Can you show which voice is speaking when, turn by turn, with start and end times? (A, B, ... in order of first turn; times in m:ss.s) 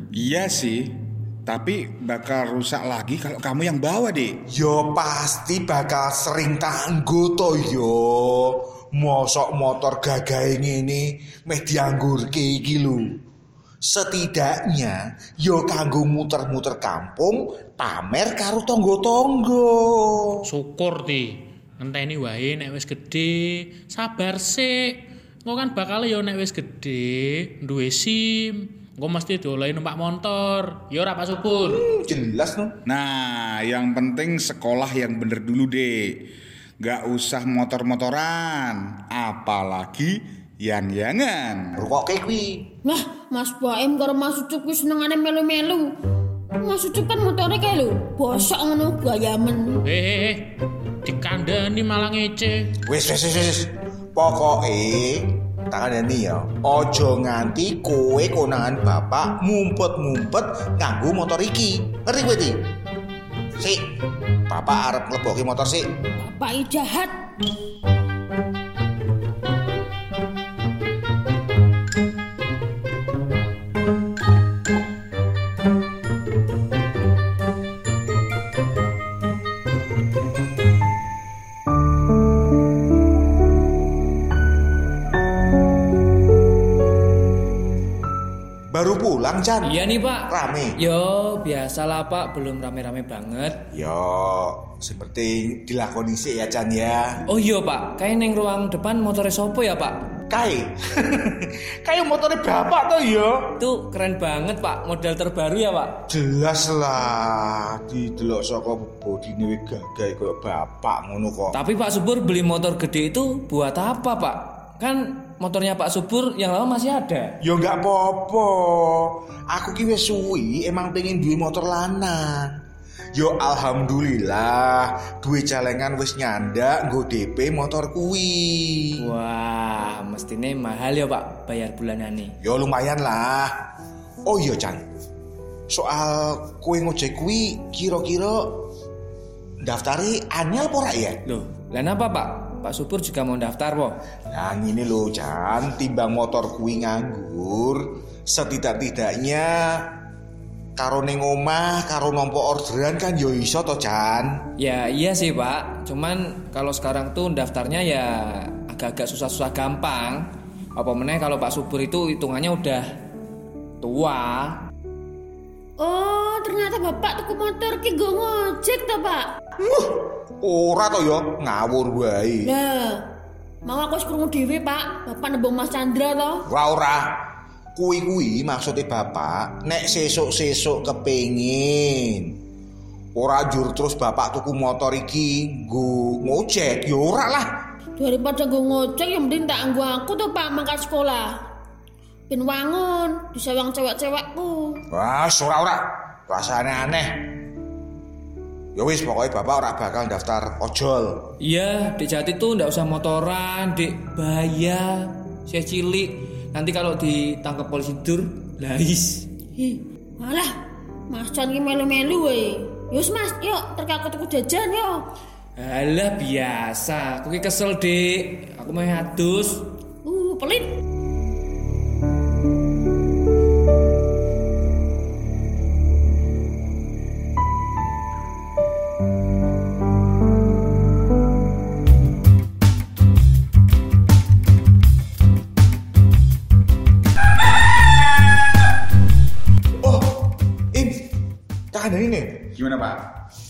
0:00.1-0:00.9 A
0:01.5-0:04.4 A
0:04.5-0:13.2 B
0:13.8-0:20.4 B
0:20.4-0:31.8 C
0:31.6-0:32.8 B
0:32.9-0:36.1 A
0:36.8-0:41.9 A
0:41.8-0:42.7 B
0:42.8-0:45.9 D
0:46.6-0:49.8 D
0:49.8-0:52.7 C
0:52.8-1:02.7 B
1:03.6-1:03.9 B
1:04.5-1:05.9 B
1:06.2-1:07.1 D
1:28.7-1:29.8 B
1:29.6-1:33.6 E
1:30.3-1:30.8 B
1:33.7-1:37.2 B
1:37.3-1:40.1 E
1:40.3-1:43.5 B
1:43.6-1:46.0 E
1:46.1-1:51.6 B
1:51.5-1:57.4 E
1:57.4-2:02.5 B
2:03.1-2:09.1 B
2:09.0-2:12.4 E
2:12.4-2:13.5 B
2:14.2-2:14.8 B
2:15.7-2:18.7 B
2:19.6-2:21.2 B
2:21.2-2:24.1 E
2:24.3-2:29.8 B
2:30.8-2:34.4 B
2:34.6-2:43.0 E
2:43.8-2:44.6 E
2:45.8-2:49.3 D
2:49.6-2:52.5 B
2:52.4-2:53.0 D
2:53.6-2:56.5 D
2:56.5-2:57.2 B
2:57.8-3:02.4 B
3:03.2-3:07.5 B
3:08.0-3:11.3 D
3:12.3-3:14.8 D
3:14.9-3:17.3 B
3:18.8-3:21.3 B
3:21.4-3:29.4 E
3:29.6-3:30.6 D
3:31.1-3:35.1 D
3:35.6-3:39.7 E
3:40.0-3:40.7 D
3:59.8-4:01.1 B
4:01.7-4:02.5 B
4:02.6-4:03.0 A